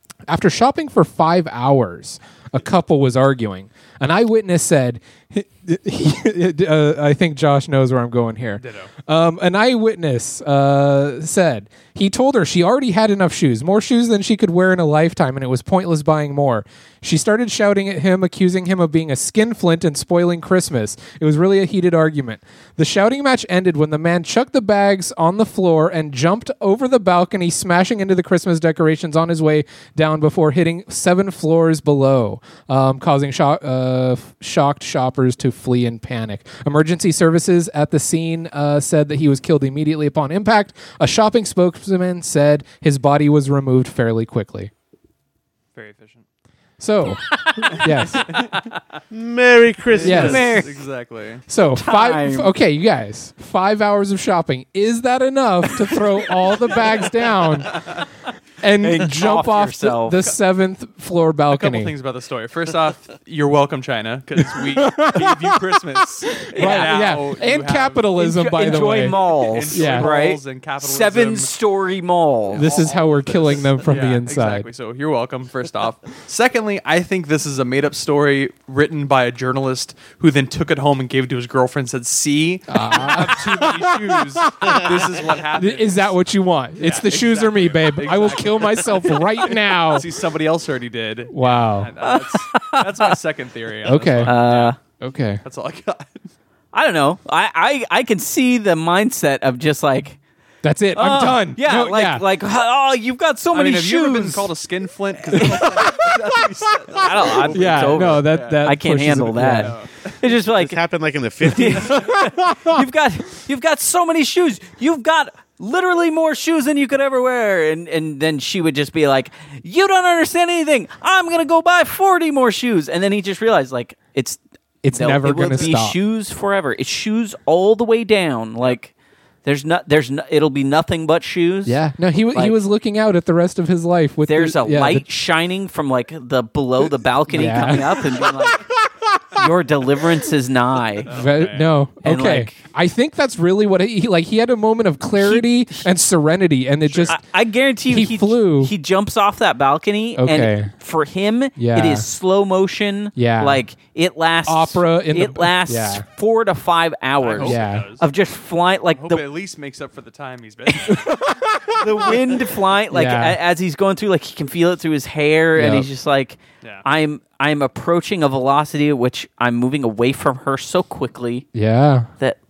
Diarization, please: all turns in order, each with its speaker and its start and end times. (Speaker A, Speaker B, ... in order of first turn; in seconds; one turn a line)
Speaker A: 0.3-44.7
Speaker B: 8.6-8.9
Speaker B: 45.7-46.2
Speaker A: 46.8-48.3
Speaker C: 47.3-48.6
Speaker B: 47.7-48.7
Speaker D: 49.1-50.5
Speaker B: 49.9-51.4
Speaker A: 50.0-50.6
Speaker C: 50.0-50.7
Speaker A: 51.5-57.8
Speaker C: 51.7-52.5
Speaker B: 57.7-58.0
Speaker A: 58.6-61.9
Speaker C: 58.8-60.2
Speaker B: 61.5-68.1
Speaker A: 64.4-65.8
Speaker A: 66.3-70.1
Speaker C: 66.5-67.0
Speaker C: 68.2-72.7
Speaker B: 68.7-71.5
Speaker B: 72.5-86.2
Speaker A: 72.5-74.7
Speaker A: 82.7-90.1
Speaker B: 86.8-94.8
Speaker A: 91.3-91.9
Speaker C: 92.0-93.2
Speaker A: 93.8-94.3
Speaker C: 94.2-94.8
Speaker A: 95.0-95.4
Speaker B: 95.4-96.3
Speaker C: 96.7-100.2
Speaker A: 100.6-102.2
Speaker C: 100.9-104.5
Speaker B: 103.5-108.6
Speaker A: 105.3-106.4
Speaker C: 105.3-105.6
Speaker C: 106.9-110.8
Speaker A: 107.5-109.7
Speaker B: 109.4-110.2
Speaker D: 110.5-112.2
Speaker C: 111.4-124.4
Speaker A: 112.3-112.8
Speaker A: 124.8-126.0
Speaker C: 124.9-128.9
Speaker C: 129.4-131.8
Speaker A: 131.6-135.1
Speaker C: 134.2-138.6
Speaker A: 137.3-138.6
Speaker A: 139.1-139.4
Speaker C: 139.3-141.1
Speaker B: 141.1-141.7
Speaker A: 141.1-147.2
Speaker C: 142.0-142.6
Speaker C: 145.2-145.8
Speaker B: 146.8-147.2
Speaker C: 147.1-159.2
Speaker A: 147.9-148.7
Speaker A: 150.2-150.7
Speaker A: 151.6-152.1
Speaker A: 153.1-153.6
Speaker A: 154.5-156.0
Speaker B: 157.2-158.0
Speaker A: 157.4-157.9
Speaker B: 158.9-161.4
Speaker C: 160.7-161.0
Speaker A: 160.9-162.2
Speaker C: 161.7-171.4
Speaker A: 162.9-163.4
Speaker A: 165.6-165.9
Speaker A: 171.5-172.1